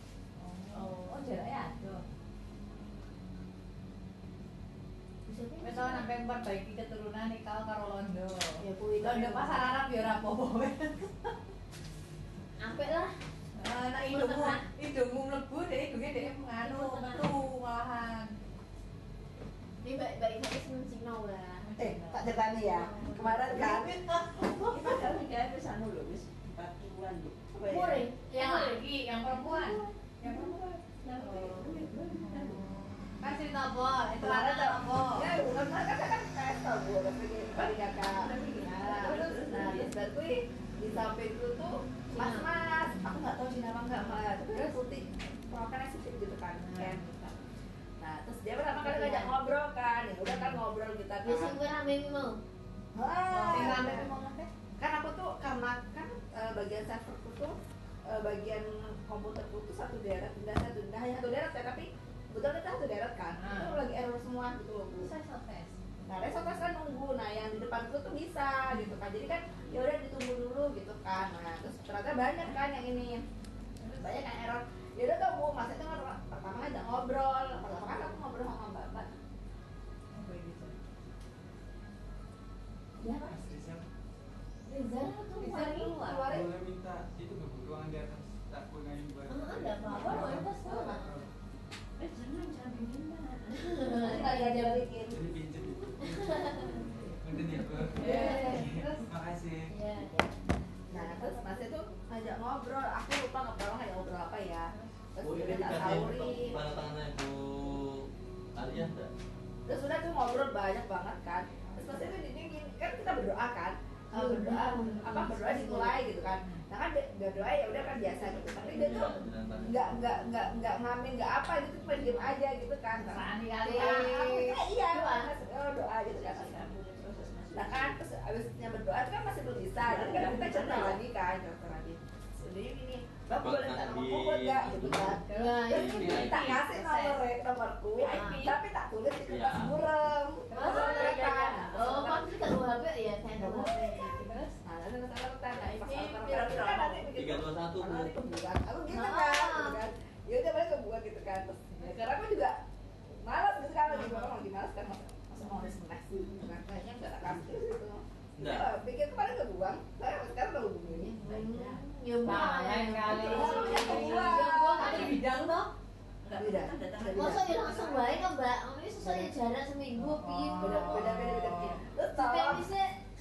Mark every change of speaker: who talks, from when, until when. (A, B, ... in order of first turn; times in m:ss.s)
0:00.4-0:02.0 A
0:00.7-0:01.3 B
0:05.2-0:06.1 B
0:05.6-0:11.3 A
0:08.6-0:09.7 B
0:12.6-0:13.1 B
0:13.6-0:18.3 A
0:14.1-0:14.6 B
0:16.6-0:17.3 B
0:19.8-0:21.9 B
0:21.7-0:22.3 A
0:21.8-0:24.0 C
0:22.6-0:23.6 B
0:23.5-0:24.9 A
0:24.6-0:27.4 D
0:27.5-0:28.1 C
0:27.6-0:29.7 B
0:28.2-0:30.7 A
0:31.0-0:32.6 D
0:32.2-0:32.5 A
0:32.4-0:32.8 B
0:33.2-0:35.4 A
0:34.2-0:47.1 C
0:38.0-0:39.9 D
0:42.1-0:42.5 B
0:46.6-0:47.1 A
0:48.0-0:51.6 C
0:48.8-0:49.2 B
0:51.2-0:52.4 B
0:52.9-0:54.1 C
0:53.3-0:54.5 A
0:53.4-0:54.0 B
0:54.8-0:57.6 C
0:58.1-1:05.1 C
1:03.4-1:03.8 A
1:04.9-1:05.8 A
1:06.1-1:13.2 C
1:13.8-1:14.2 A
1:14.0-1:19.2 C
1:20.1-1:20.8 A
1:23.0-1:23.4 B
1:23.2-1:23.8 E
1:24.6-1:26.0 B
1:25.4-1:26.2 A
1:26.0-1:26.5 C
1:26.3-1:31.3 E
1:29.3-1:31.0 B
1:30.1-1:30.8 A
1:32.0-1:34.1 D
1:33.5-1:34.8 B
1:34.0-1:35.2 C
1:35.1-1:36.4 E
1:36.0-1:36.9 B
1:37.2-1:39.7 E
1:37.9-1:39.0 A
1:38.0-1:38.7 B
1:39.7-1:40.3 B
1:40.9-1:46.6 C
1:40.9-1:41.9 A
1:45.2-1:47.8 F
1:48.5-1:49.1 F
1:49.7-2:06.6 C
1:51.6-1:52.1 A
1:54.1-1:56.0 B
1:58.6-2:00.1 F
2:02.9-2:04.6 A
2:04.9-2:05.3 B
2:06.1-2:08.0 D
2:07.5-2:22.4 C
2:09.8-2:11.0 D
2:13.3-2:16.5 F
2:15.2-2:16.2 B
2:15.9-2:17.2 A
2:18.0-2:18.5 B
2:18.0-2:18.5 D
2:19.2-2:19.8 F
2:20.5-2:24.4 B
2:20.6-2:21.3 A
2:23.4-2:24.6 A
2:24.6-2:32.6 C
2:25.6-2:27.0 D
2:27.1-2:28.1 F
2:28.9-2:29.7 A
2:33.2-2:41.2 C
2:33.9-2:34.3 B
2:35.4-2:36.4 B
2:38.4-2:38.7 F
2:40.9-2:41.9 D
2:41.2-2:45.0 B
2:42.2-2:45.7 A
2:43.1-2:45.1 C
2:43.4-2:45.1 D
2:46.2-2:48.2 D
2:46.3-2:48.0 C
2:47.1-2:51.0 B
2:49.0-2:49.3 C
2:50.1-2:51.8 A
2:50.6-2:52.6 C
2:52.2-2:52.8 B